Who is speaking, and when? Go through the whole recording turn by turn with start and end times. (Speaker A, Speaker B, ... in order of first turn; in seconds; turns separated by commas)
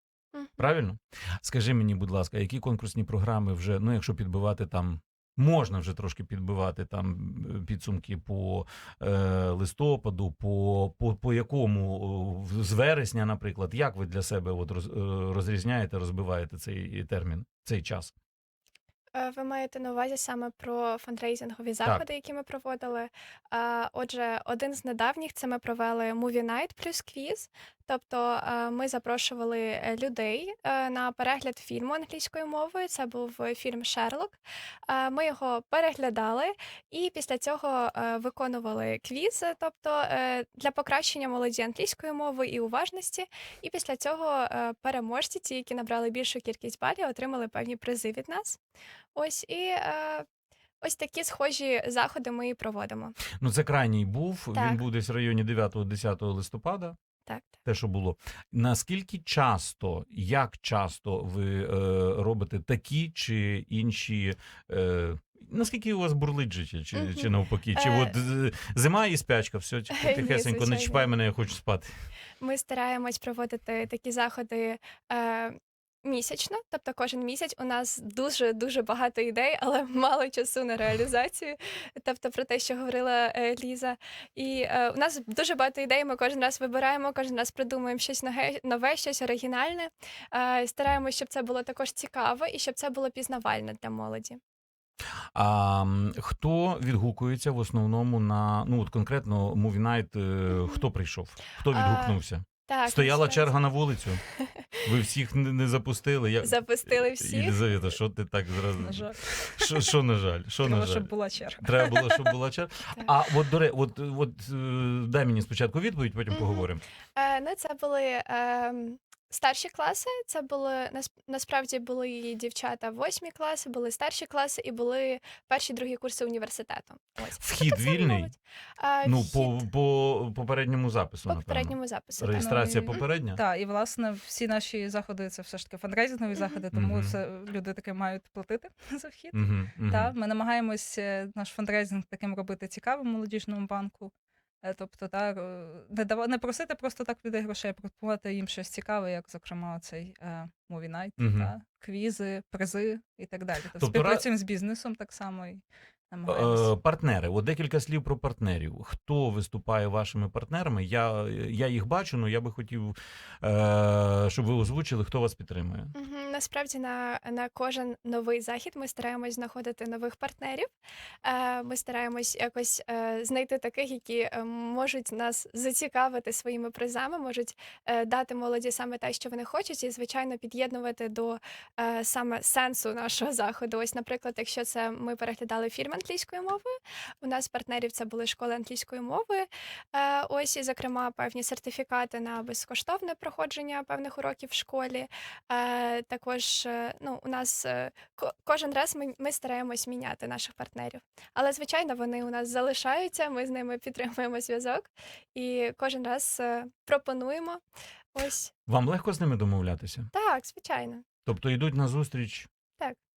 Speaker A: 0.6-18.1, Speaker B: 19.1-34.4, Speaker B: 34.9-48.6, Speaker B: 49.1-50.2, Speaker B: 50.8-53.1, Speaker A: 53.4-57.0, Speaker B: 54.5-54.8, Speaker B: 57.2-57.6, Speaker A: 57.6-71.9, Speaker B: 66.9-68.1, Speaker B: 70.0-71.1, Speaker B: 72.4-94.4, Speaker A: 95.3-104.2, Speaker B: 101.7-103.5, Speaker A: 104.8-111.1, Speaker B: 106.4-107.8, Speaker C: 108.8-109.7, Speaker C: 110.6-112.3, Speaker A: 111.6-116.8, Speaker B: 116.3-129.6, Speaker A: 127.4-128.3, Speaker A: 129.0-133.4, Speaker B: 131.3-133.0, Speaker C: 132.3-144.1, Speaker A: 136.7-137.1, Speaker A: 139.3-140.1, Speaker C: 144.6-156.7, Speaker A: 151.2-151.5, Speaker A: 153.8-154.2, Speaker A: 156.3-165.9, Speaker B: 165.9-170.7, Speaker B: 171.2-207.6, Speaker B: 208.1-208.5, Speaker A: 208.7-210.1, Speaker B: 210.1-211.0, Speaker A: 211.3-212.5